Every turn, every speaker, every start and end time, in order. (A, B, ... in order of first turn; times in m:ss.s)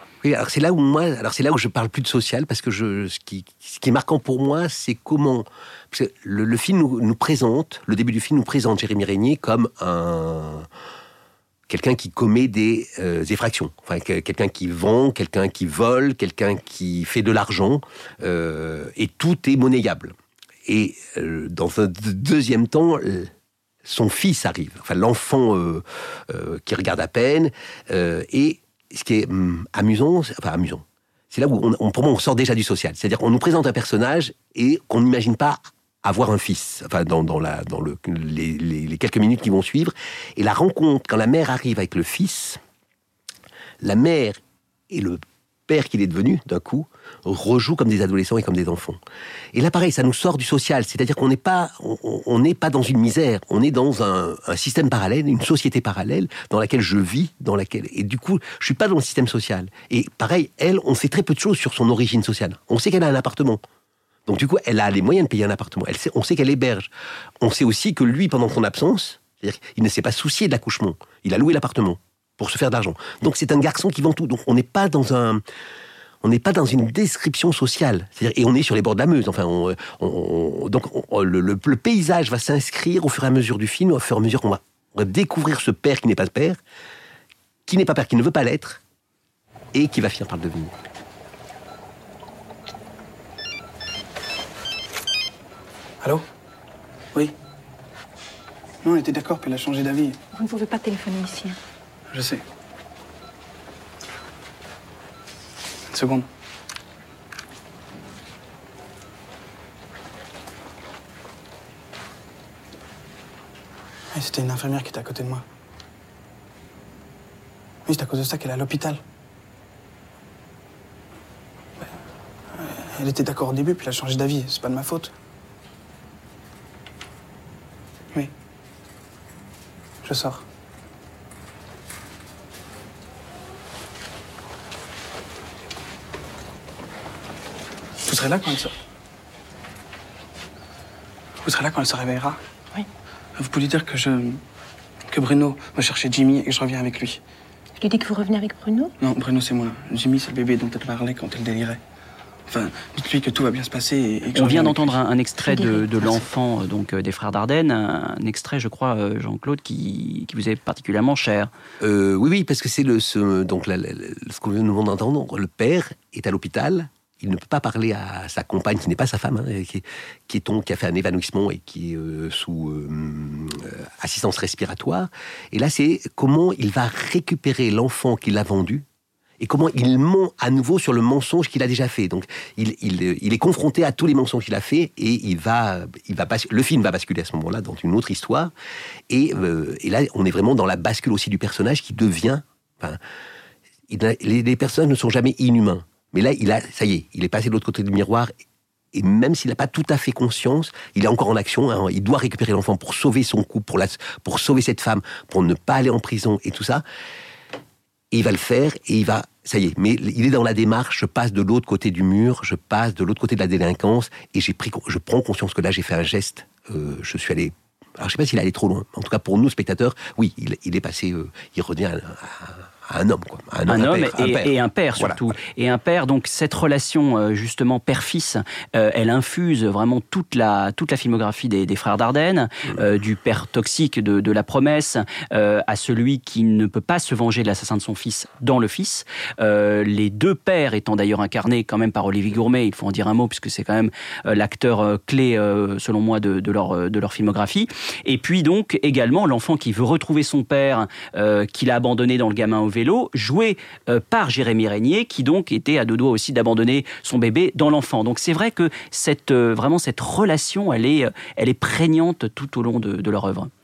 0:00.2-0:10.7 A
0:11.7-0:20.1 A
0:20.6-0:23.3 A
0:23.8-0:42.6 A
0:43.8-0:49.0 A
0:49.5-1:03.6 A
1:04.3-1:15.4 A
1:16.2-1:26.6 A
1:27.6-1:28.8 A
1:29.7-1:30.7 A
1:38.8-1:40.2 B
1:40.3-1:41.6 C
1:42.1-1:42.4 B
1:45.9-1:46.3 B
1:54.1-1:55.4 B
1:57.9-1:59.0 B
2:02.5-2:05.1 B
2:10.0-2:10.4 B
2:18.0-2:18.7 B
2:21.4-2:22.4 B
2:23.4-2:24.4 B
2:25.1-2:27.2 B
2:27.8-2:28.9 C
2:29.0-2:31.8 B
2:32.5-2:35.0 B
2:34.3-2:41.5 D
2:35.4-2:35.9 C
2:41.8-2:58.8 A
2:59.4-3:08.5 A
3:09.1-3:13.0 A
3:13.9-3:18.3 A
3:18.9-3:26.8 A
3:28.1-3:45.3 A
3:43.7-4:23.5 D